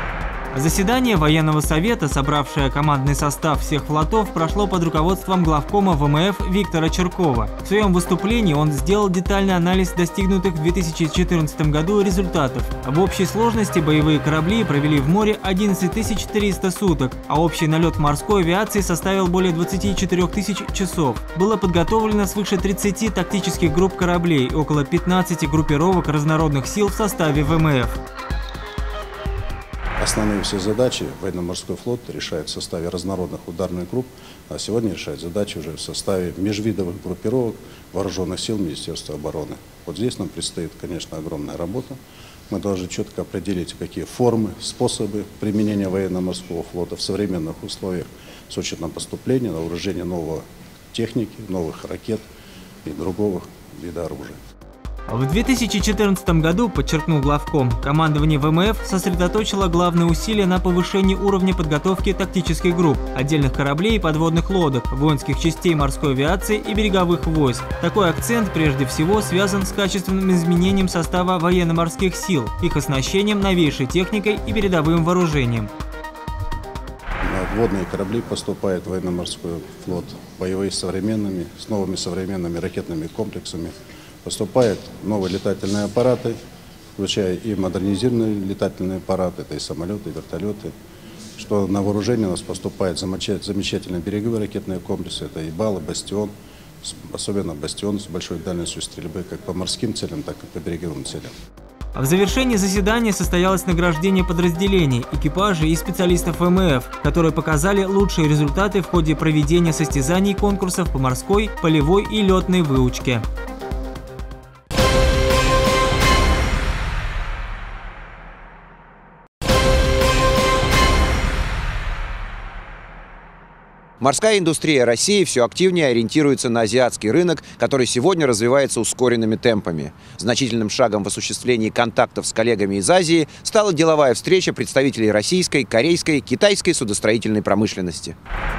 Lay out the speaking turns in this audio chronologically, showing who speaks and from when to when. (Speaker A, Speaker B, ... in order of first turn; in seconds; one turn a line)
Speaker A: 0.5-28.0
Speaker B: 30.0-42.0
Speaker B: 42.5-52.2
Speaker B: 52.8-54.4
Speaker A: 55.1-75.7
Speaker B: 77.2-86.3
Speaker B: 87.0-90.7
Speaker B: 91.4-96.3
Speaker B: 96.8-101.3
Speaker A: 101.9-113.2
Speaker C: 124.0-138.1